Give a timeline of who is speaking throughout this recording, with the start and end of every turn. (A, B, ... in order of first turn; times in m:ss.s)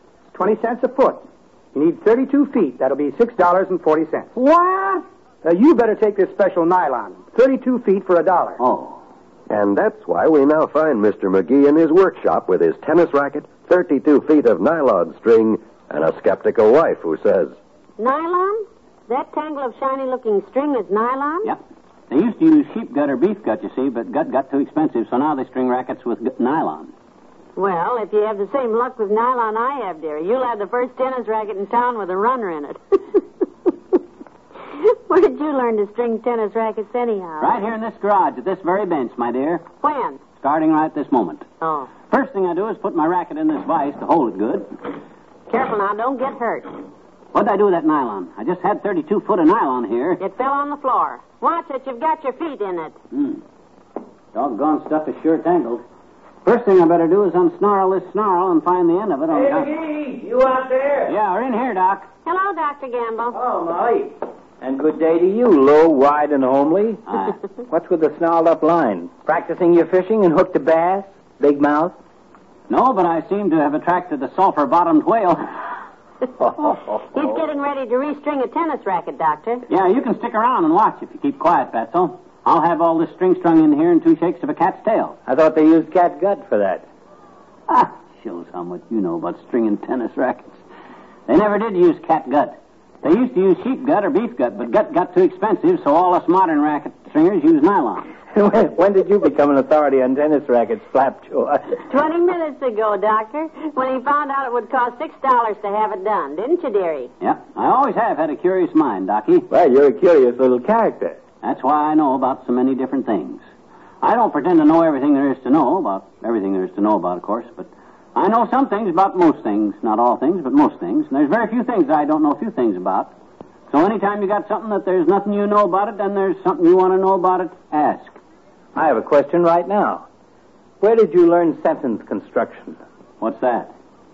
0:00.3-0:04.3 A
0:04.3-0:05.0 B
0:05.4-0:08.6 A
0:08.6-0:09.0 B
0:09.5-0:17.6 C
0:18.0-0:21.5 D
0:21.4-0:26.9 B
0:27.6-0:33.2 D
0:34.7-0:37.6 D
0:37.4-0:39.7 B
0:39.8-0:40.3 D
0:40.3-0:41.5 B
0:41.6-0:42.0 D
0:42.1-0:44.9 B
0:45.5-0:46.8 D
0:47.3-0:50.2 B
0:50.2-0:53.0 D
0:53.1-0:53.4 B
0:54.3-0:55.8 B
0:56.4-0:59.7 B
0:59.3-1:01.1 E
1:01.1-1:02.1 B
1:02.2-1:03.4 D
1:03.3-1:07.0 E
1:07.1-1:07.3 B
1:07.7-1:11.9 E
1:12.7-1:15.5 B
1:16.7-1:19.6 D
1:19.7-1:25.2 B
1:25.2-1:26.8 E
1:27.7-1:30.6 B
1:31.3-1:38.1 B
1:38.3-1:41.8 E
1:41.9-1:47.1 D
1:47.2-1:49.4 B
1:49.5-1:51.2 E
1:51.4-1:53.4 B
1:54.0-2:03.1 B
2:03.7-2:08.2 B
2:08.7-2:10.0 E
2:10.8-2:12.8 E
2:13.2-2:13.7 B